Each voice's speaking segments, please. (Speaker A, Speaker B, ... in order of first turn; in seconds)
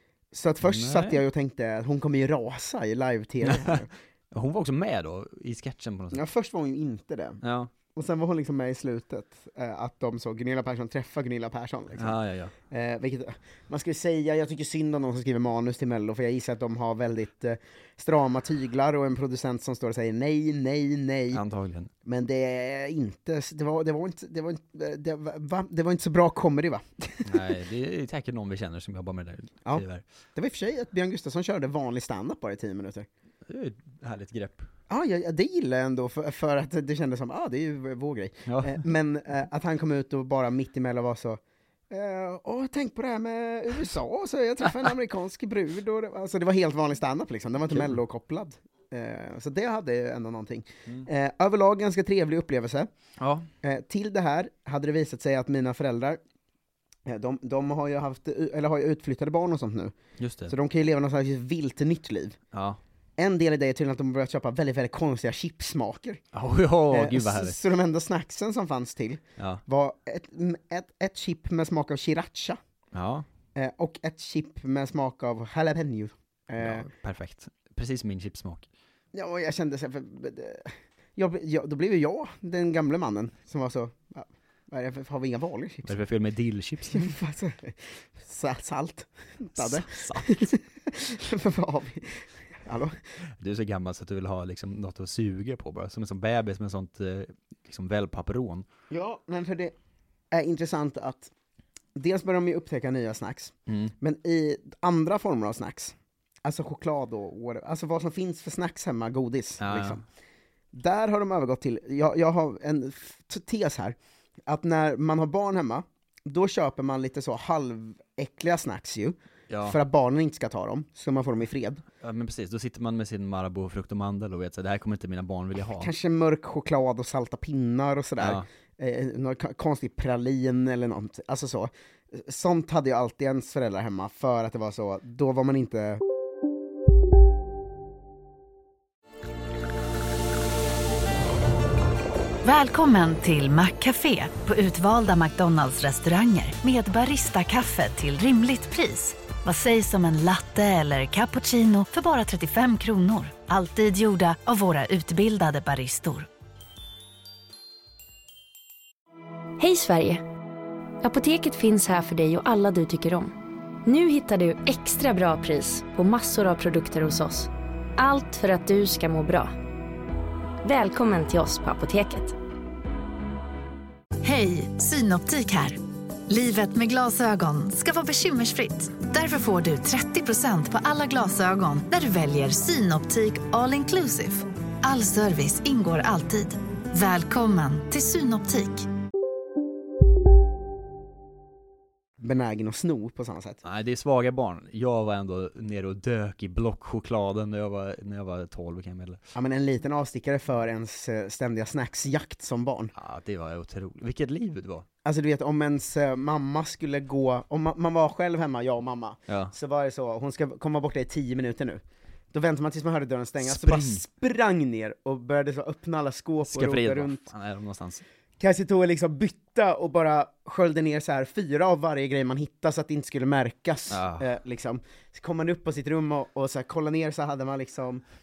Speaker A: 0.3-3.9, 6.1-7.4, 7.9-12.2, 12.7-21.4, 22.0-27.3, 30.4-33.1, 34.9-52.9, 53.6-56.2, 57.0-60.0, 60.5-62.4, 63.2-66.2, 66.9-72.6, 73.5-76.9, 79.1-86.0, 86.9-93.0, 98.9-99.7, 100.3-101.3, 102.0-110.0, 110.7-121.8, 125.8-136.0, 192.2-193.6, 199.3-202.9, 205.0-211.8, 212.3-217.3, 218.4-228.0
Speaker B: 0.6-1.2, 3.5-3.8, 4.3-6.2, 7.4-7.7, 11.9-12.5, 21.3-21.9, 27.2-30.0, 33.5-34.7, 38.5-38.8, 47.7-48.0, 53.2-53.5, 60.2-60.5, 62.5-62.8, 66.3-67.6, 72.9-73.2, 76.6-78.7, 85.8-87.1, 89.5-90.5, 93.4-98.7, 103.7-103.9, 109.6-110.0, 119.5-119.8, 122.0-125.9, 128.2-128.4, 193.6-199.2, 202.9-204.9, 209.3-209.5, 213.4-214.0, 216.4-218.0, 223.9-224.3
Speaker C: 142.4-156.3, 174.2-188.9
Speaker D: 159.6-160.2, 161.0-163.3, 163.8-169.5, 170.6-172.4